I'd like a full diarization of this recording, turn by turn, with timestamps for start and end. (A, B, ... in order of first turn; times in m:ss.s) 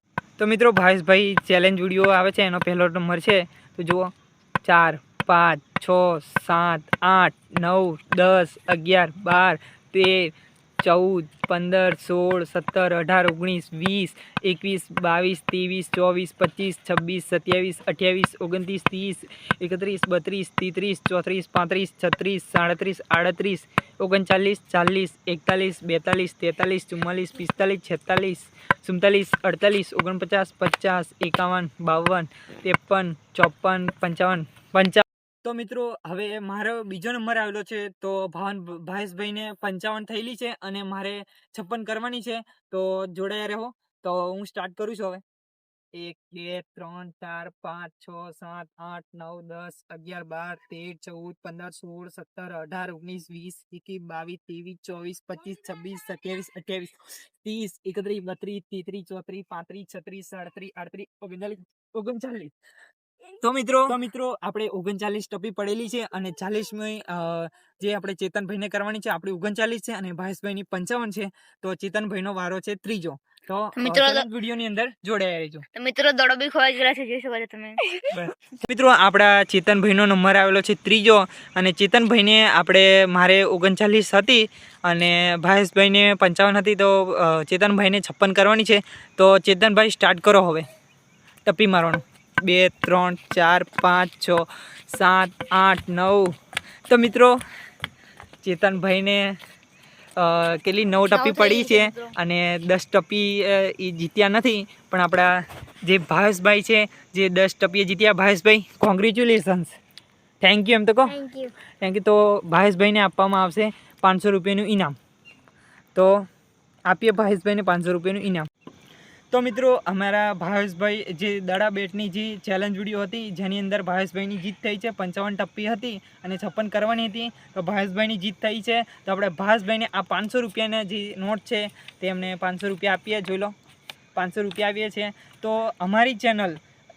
0:00.4-0:04.1 A
0:04.6-0:45.2 A
0:45.9-1:02.5 A
1:03.4-1:15.6 A
1:13.8-1:14.2 B
1:15.7-1:18.1 B
1:18.1-1:30.6 A
1:31.4-1:36.3 A
1:36.9-1:37.4 A
1:38.4-1:39.4 A
1:40.2-1:45.3 A
1:41.1-1:42.1 B
1:45.8-1:49.8 A
1:50.4-1:51.2 A
1:51.1-1:51.5 B
1:51.8-1:55.0 A
1:55.9-1:56.2 A
1:56.9-1:58.5 A
1:59.3-2:13.5 A
2:14.1-2:16.6 A